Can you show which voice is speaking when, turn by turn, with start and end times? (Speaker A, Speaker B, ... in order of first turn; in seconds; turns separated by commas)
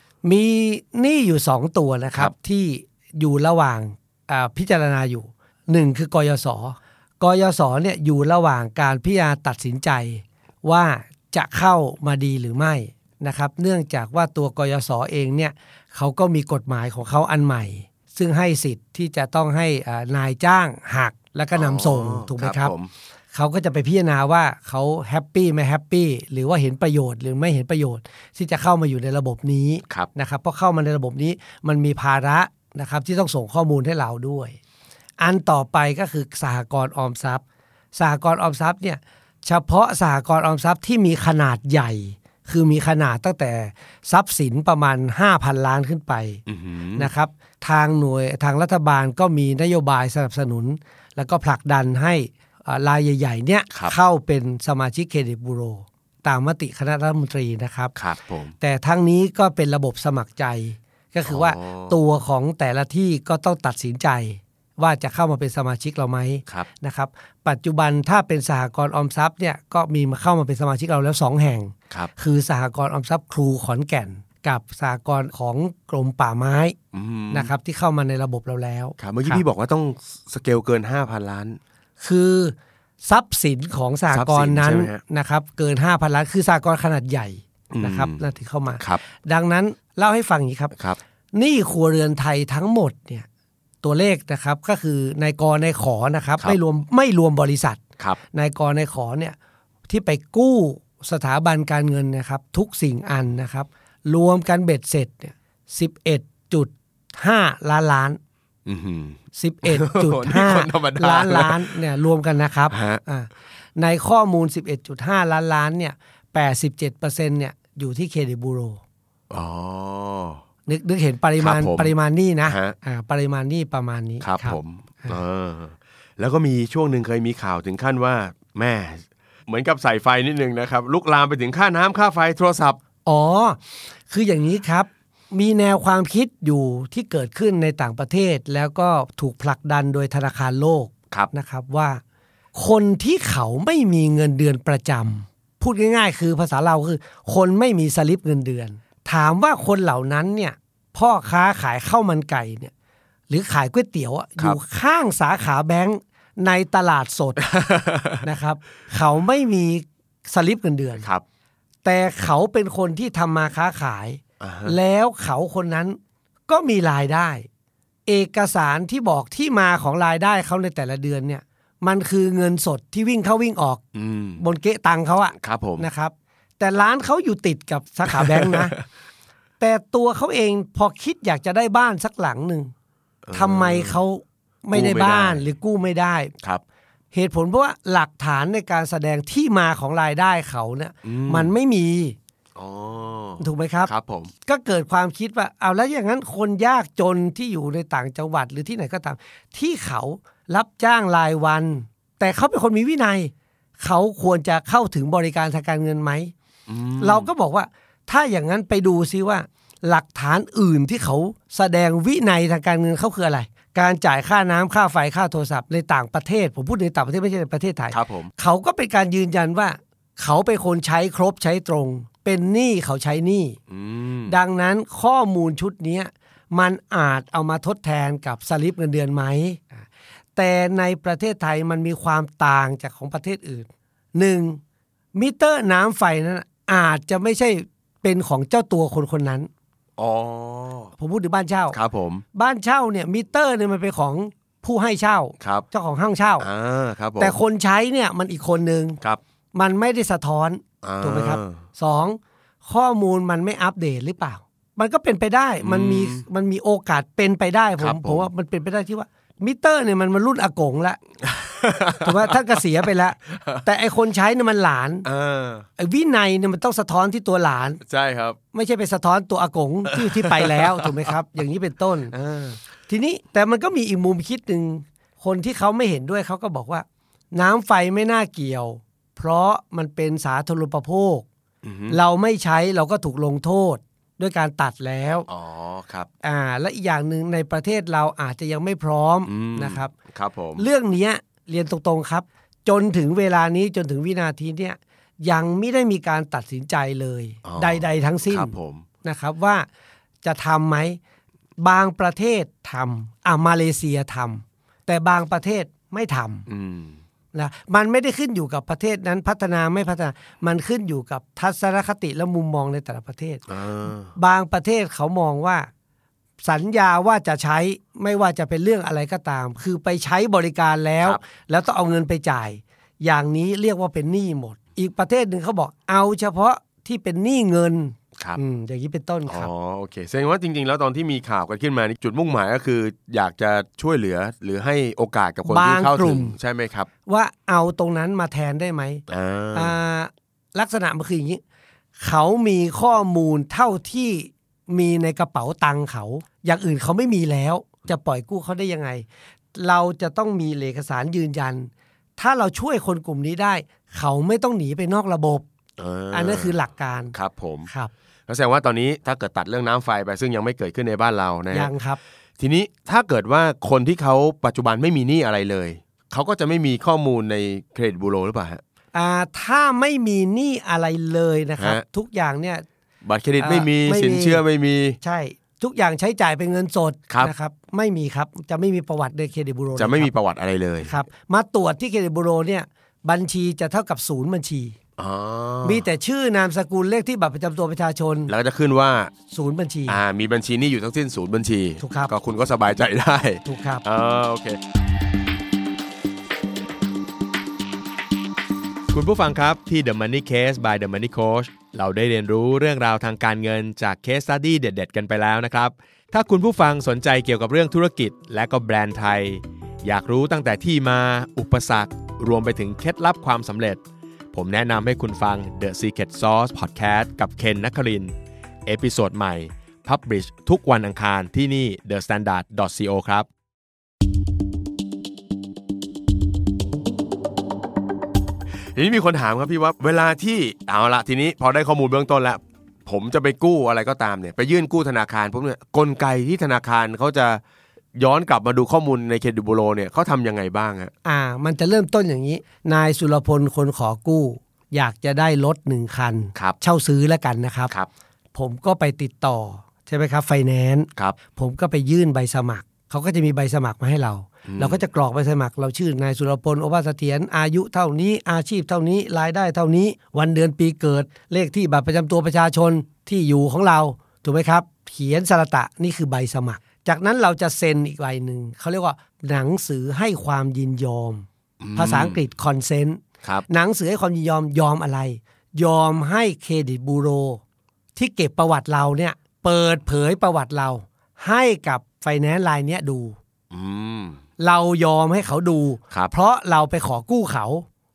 Speaker A: 0.2-22.7, Speaker B: 21.5-22.9, Speaker A: 23.3-34.6, Speaker A: 35.2-37.4, Speaker A: 38.0-46.4, Speaker B: 46.5-47.1, Speaker A: 47.0-57.9, Speaker B: 58.0-58.5, Speaker A: 58.6-76.8, Speaker B: 61.3-62.0, Speaker B: 76.9-77.5, Speaker A: 77.3-79.4, Speaker B: 79.0-81.6, Speaker A: 82.0-90.7, Speaker B: 84.1-85.0, Speaker B: 87.7-88.2, Speaker A: 91.3-93.3, Speaker A: 93.8-99.4, Speaker A: 99.9-108.2, Speaker B: 108.7-111.7, Speaker A: 109.4-118.8, Speaker B: 112.7-113.0, Speaker B: 119.3-120.4, Speaker A: 120.7-125.2, Speaker B: 121.4-122.0, Speaker B: 122.5-122.8, Speaker B: 124.2-132.8, Speaker A: 133.1-142.0, Speaker A: 142.6-152.7, Speaker A: 153.3-157.5, Speaker B: 157.4-158.2, Speaker A: 158.2-161.1, Speaker A: 161.8-167.5, Speaker B: 164.4-164.8, Speaker A: 168.1-173.8, Speaker B: 173.9-174.4, Speaker A: 174.4-178.8, Speaker B: 175.3-175.9, Speaker B: 178.1-178.7, Speaker A: 179.6-182.7, Speaker B: 183.2-184.0, Speaker A: 183.3-186.3, Speaker B: 184.7-185.4, Speaker A: 187.1-192.2, Speaker B: 191.0-191.5, Speaker B: 192.6-194.3, Speaker A: 193.4-193.9, Speaker A: 194.4-206.3, Speaker B: 206.7-207.3, Speaker A: 207.0-223.6, Speaker B: 217.9-218.3, Speaker B: 223.7-224.4, Speaker A: 224.3-229.8, Speaker A: 230.4-234.6, Speaker A: 235.1-239.5, Speaker B: 240.0-240.9, Speaker A: 241.0-241.8, Speaker B: 241.7-242.2, Speaker A: 242.3-246.5, Speaker B: 245.4-245.7, Speaker B: 246.4-247.4, Speaker A: 247.2-249.0, Speaker A: 249.5-261.0, Speaker B: 250.8-251.6, Speaker B: 255.6-256.2, Speaker B: 257.8-258.3, Speaker B: 261.2-262.4, Speaker A: 262.0-265.1, Speaker B: 263.3-263.6, Speaker B: 265.1-265.7, Speaker A: 265.8-267.8, Speaker B: 267.8-268.4, Speaker A: 268.5-272.1, Speaker B: 269.9-271.1, Speaker B: 272.1-272.6, Speaker A: 272.9-281.3, Speaker B: 281.6-282.0, Speaker A: 281.9-285.3, Speaker B: 285.3-286.1, Speaker A: 286.2-289.9, Speaker B: 289.3-290.7, Speaker A: 290.6-299.7, Speaker B: 297.4-298.9, Speaker A: 300.2-301.0, Speaker A: 301.6-306.5, Speaker B: 306.5-307.0, Speaker A: 307.3-313.4, Speaker B: 313.5-314.1, Speaker A: 314.1-315.7, Speaker A: 316.4-329.5, Speaker B: 329.3-336.9, Speaker A: 335.4-336.4, Speaker A: 337.1-339.0, Speaker B: 339.1-339.7, Speaker A: 339.5-341.4, Speaker A: 342.0-355.4, Speaker B: 355.8-356.5, Speaker A: 356.1-357.1, Speaker B: 357.1-357.7, Speaker B: 358.3-361.7, Speaker A: 361.5-362.0, Speaker B: 362.4-368.6, Speaker A: 368.9-372.6, Speaker B: 371.6-371.8, Speaker B: 373.0-375.0, Speaker A: 373.4-374.4, Speaker A: 375.0-380.1, Speaker B: 379.8-381.0, Speaker A: 380.8-384.8, Speaker B: 385.0-385.9, Speaker A: 385.6-388.3, Speaker B: 388.3-389.1, Speaker A: 389.3-390.0, Speaker B: 389.9-394.6, Speaker A: 391.8-392.1, Speaker A: 393.4-393.8, Speaker B: 398.9-413.8, Speaker B: 414.3-418.1, Speaker B: 418.7-423.3, Speaker B: 428.8-437.4, Speaker B: 438.0-440.9, Speaker A: 441.1-447.7, Speaker A: 448.4-477.4, Speaker B: 454.5-454.8, Speaker B: 471.6-472.2, Speaker A: 478.0-483.2, Speaker B: 483.5-484.2, Speaker A: 484.4-487.7